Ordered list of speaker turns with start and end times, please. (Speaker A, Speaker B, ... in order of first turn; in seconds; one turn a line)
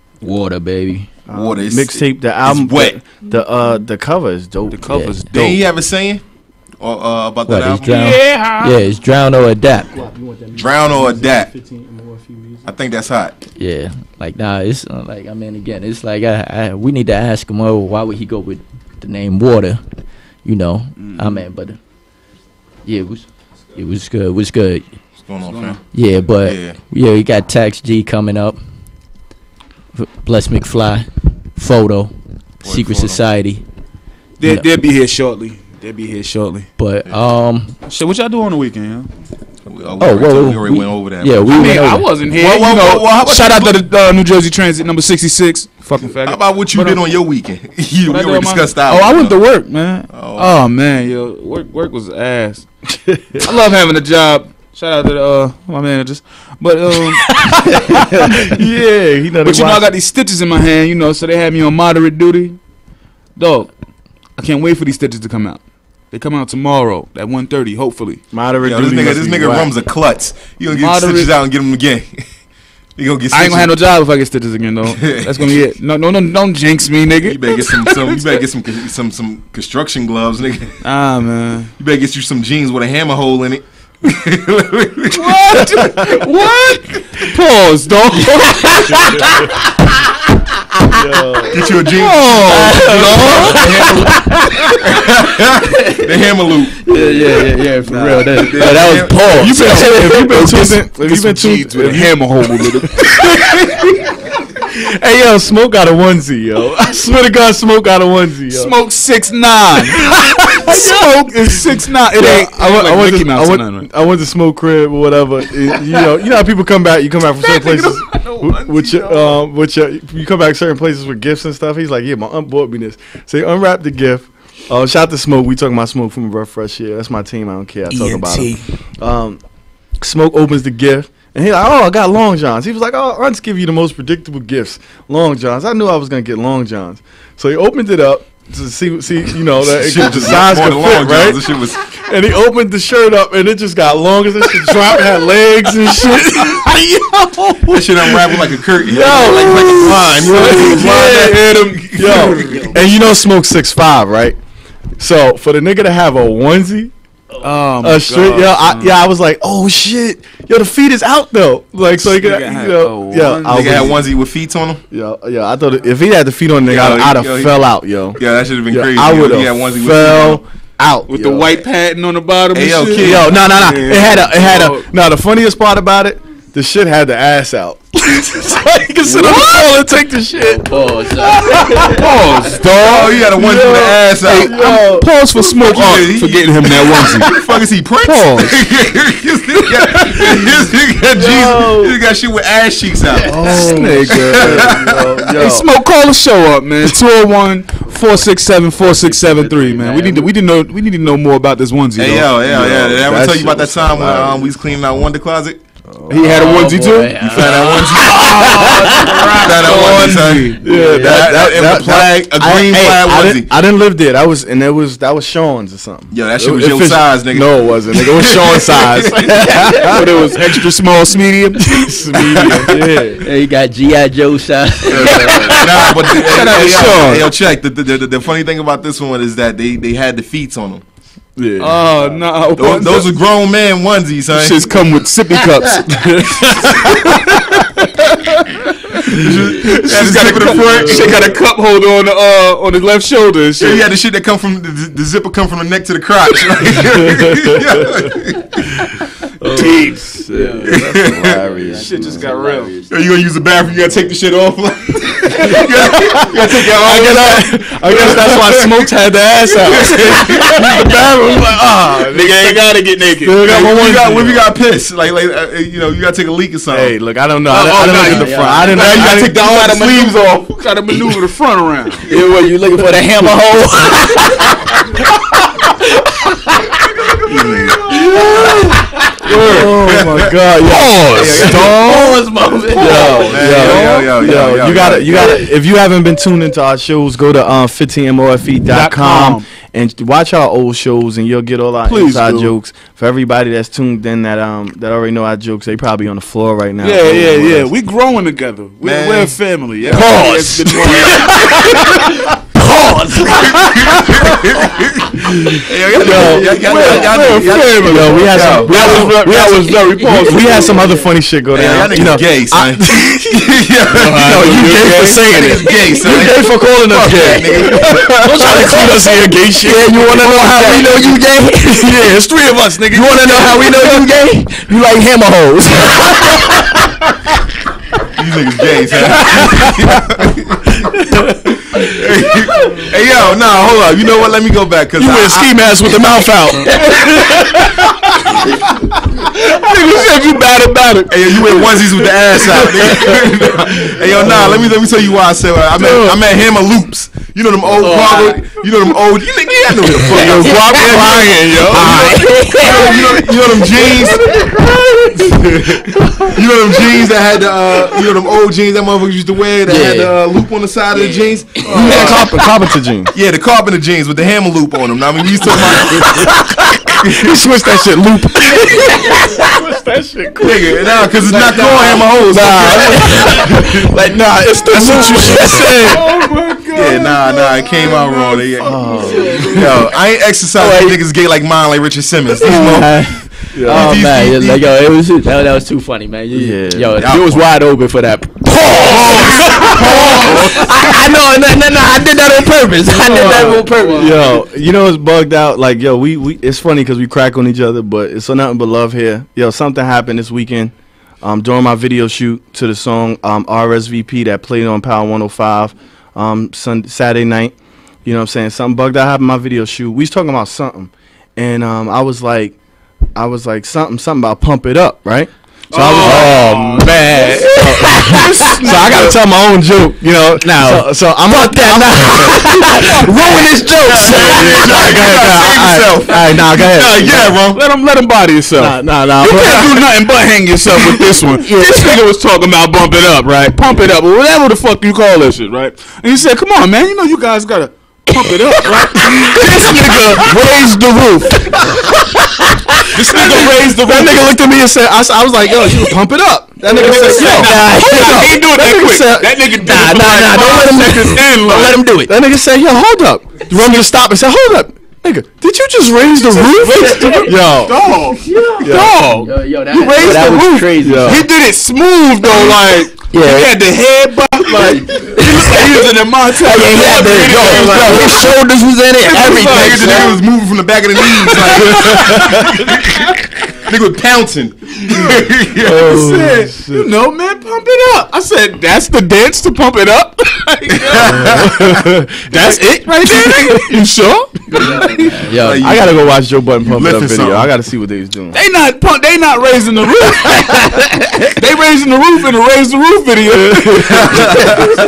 Speaker A: 0.2-1.1
Speaker B: 1.3-5.0
Speaker C: 1.3-3.0
Speaker D: 4.7-5.6
Speaker A: 4.9-5.2
Speaker C: 5.3-6.2
Speaker C: 6.8-7.9
Speaker A: 7.5-9.9
Speaker D: 7.8-8.8
Speaker B: 9.9-12.7
Speaker C: 10.6-11.5
Speaker C: 12.6-13.4
Speaker A: 13.6-19.8
Speaker A: 20.4-21.8
Speaker D: 21.0-21.4
Speaker A: 22.9-24.9
Speaker C: 25.3-25.8
Speaker D: 25.4-25.8
Speaker A: 25.9-28.6
Speaker C: 26.4-26.8
Speaker A: 29.9-33.6
Speaker C: 32.6-33.2
Speaker D: 34.4-36.7
Speaker A: 36.8-37.7
Speaker D: 37.9-39.1
Speaker C: 39.7-41.8
Speaker A: 40.0-42.1
Speaker D: 41.5-47.0
Speaker C: 42.3-43.9
Speaker C: 46.2-49.4
Speaker D: 48.0-52.7
Speaker C: 50.1-50.6
Speaker B: 53.1-53.5
Speaker D: 53.4-58.6
Speaker B: 58.3-59.9
Speaker D: 59.4-62.6
Speaker D: 63.4-63.7
Speaker D: 64.4-68.2
Speaker B: 68.3-69.7
Speaker C: 68.6-72.3
Speaker D: 70.7-71.4
Speaker C: 73.0-73.7
Speaker D: 73.3-78.2
Speaker C: 75.0-75.5
Speaker C: 77.2-80.7
Speaker B: 80.8-81.7
Speaker C: 81.8-85.9
Speaker D: 85.1-89.5
Speaker B: 90.9-91.8
Speaker C: 91.5-93.9
Speaker D: 92.0-94.4
Speaker A: 92.5-94.2
Speaker C: 94.9-96.8
Speaker A: 96.9-100.8
Speaker D: 97.9-98.3
Speaker C: 98.2-99.2
Speaker B: 99.4-103.8
Speaker D: 99.4-103.2
Speaker B: 104.7-108.8
Speaker D: 108.5-113.9
Speaker B: 110.0-111.0
Speaker B: 112.1-129.4
Speaker D: 117.4-119.4
Speaker D: 127.9-128.6
Speaker B: 130.0-141.4
Speaker C: 139.6-141.9
Speaker B: 142.0-146.7
Speaker D: 144.7-147.7
Speaker C: 147.7-152.7
Speaker B: 148.8-154.4
Speaker D: 149.0-152.8
Speaker B: 155.0-156.9
Speaker D: 157.4-159.0
Speaker B: 157.7-164.0
Speaker D: 161.9-164.0
Speaker C: 163.4-164.8
Speaker B: 164.9-171.6
Speaker C: 166.6-170.4
Speaker D: 171.1-174.9
Speaker C: 172.5-173.3
Speaker B: 173.0-180.6
Speaker D: 179.0-179.9
Speaker A: 180.4-182.0
Speaker D: 181.4-187.3
Speaker B: 181.6-181.8
Speaker C: 182.6-184.7
Speaker B: 182.6-185.1
Speaker C: 185.4-193.4
Speaker D: 188.0-188.6
Speaker B: 191.2-191.9
Speaker B: 193.2-195.7
Speaker D: 193.4-194.7
Speaker C: 194.1-195.3
Speaker D: 195.3-202.4
Speaker A: 198.8-200.3
Speaker C: 202.0-205.6
Speaker B: 202.4-204.5
Speaker B: 205.9-206.7
Speaker D: 206.1-207.3
Speaker A: 206.1-209.5
Speaker C: 207.2-213.5
Speaker D: 208.2-211.0
Speaker B: 210.6-220.4
Speaker A: 210.6-211.4
Speaker C: 216.1-219.3
Speaker D: 219.8-222.8
Speaker B: 221.6-223.2
Speaker C: 222.4-222.6
Speaker A: 223.2-225.7
Speaker C: 224.9-230.8
Speaker D: 225.2-227.3
Speaker B: 231.4-232.2
Speaker D: 231.6-233.1
Speaker C: 232.6-234.7
Speaker D: 234.3-237.7
Speaker C: 239.1-241.2
Speaker D: 239.1-243.9
Speaker B: 240.6-241.1
Speaker C: 243.6-248.9
Speaker B: 249.4-252.3
Speaker D: 249.6-250.2
Speaker A: 249.6-252.9
Speaker C: 250.7-251.4
Speaker D: 251.8-252.8
Speaker C: 252.9-258.6
Speaker B: 255.5-262.6
Speaker D: 256.6-260.9
Speaker C: 259.6-260.5
Speaker D: 262.0-264.4
Speaker B: 263.2-264.4
Speaker C: 263.3-266.9
Speaker B: 266.7-269.5
Speaker D: 267.5-272.1
Speaker A: 268.0-268.8
Speaker C: 268.7-270.6
Speaker A: 272.1-274.6
Speaker C: 277.2-278.6
Speaker C: 279.3-280.3
Speaker B: 279.3-282.2
Speaker D: 280.6-281.6
Speaker A: 281.1-283.9
Speaker C: 281.2-281.7
Speaker B: 282.7-297.7
Speaker C: 283.2-285.4
Speaker D: 288.7-289.4
Speaker D: 291.9-292.5
Speaker D: 296.8-302.0
Speaker C: 298.8-300.1
Speaker A: 299.9-301.4
Speaker C: 303.3-309.4
Speaker B: 305.9-313.2
Speaker D: 306.0-311.0
Speaker C: 311.5-314.5
Speaker D: 313.9-316.4
Speaker B: 314.1-321.2
Speaker C: 315.3-318.1
Speaker A: 317.2-319.0
Speaker D: 318.3-318.7
Speaker A: 319.7-322.0
Speaker D: 322.1-324.0
Speaker A: 322.9-324.7
Speaker C: 328.1-330.7
Speaker C: 331.7-335.6
Speaker B: 335.0-336.7
Speaker D: 335.1-335.5
Speaker D: 336.8-337.9
Speaker D: 339.4-342.1
Speaker C: 341.1-354.2
Speaker D: 342.6-343.2
Speaker D: 345.8-346.1
Speaker A: 347.8-348.5
Speaker D: 349.4-354.6
Speaker A: 350.1-353.0
Speaker B: 350.5-351.1
Speaker C: 356.2-362.4
Speaker A: 359.7-360.1
Speaker A: 360.9-362.2
Speaker B: 361.7-363.1
Speaker C: 363.1-366.3
Speaker B: 365.8-373.2
Speaker A: 368.9-369.4
Speaker C: 370.4-373.8
Speaker D: 371.3-372.6
Speaker A: 372.6-376.1
Speaker D: 374.7-379.7
Speaker C: 376.7-384.6
Speaker B: 378.6-379.7
Speaker A: 380.6-381.0
Speaker A: 382.4-394.3
Speaker B: 383.5-384.1
Speaker B: 386.3-387.0
Speaker C: 387.0-387.5
Speaker C: 388.9-390.4
Speaker D: 392.9-394.4
Speaker B: 393.9-412.6
Speaker B: 413.1-427.4
Speaker D: 415.7-419.2
Speaker A: 416.0-418.2
Speaker A: 420.7-423.4
Speaker D: 423.1-424.6
Speaker C: 424.0-427.6
Speaker D: 427.3-441.6
Speaker B: 428.5-429.9
Speaker A: 431.4-431.9
Speaker B: 439.3-440.4
Speaker D: 442.9-444.4
Speaker B: 443.0-451.3
Speaker D: 446.6-451.8
Speaker A: 446.9-448.2
Speaker A: 450.5-452.1
Speaker B: 452.1-458.0
Speaker D: 456.2-468.4
Speaker A: 456.6-457.4
Speaker A: 458.2-461.2
Speaker B: 458.6-459.0
Speaker A: 463.1-463.5
Speaker A: 464.6-465.7
Speaker A: 466.4-470.1
Speaker D: 469.0-470.2
Speaker C: 469.2-472.5
Speaker D: 471.2-472.5
Speaker C: 473.6-476.1
Speaker B: 475.7-476.9
Speaker A: 475.7-476.4
Speaker D: 475.9-485.1
Speaker C: 480.7-481.7
Speaker A: 484.5-485.7
Speaker C: 485.3-487.5
Speaker B: 485.6-488.4
Speaker D: 488.3-490.9
Speaker D: 491.4-494.7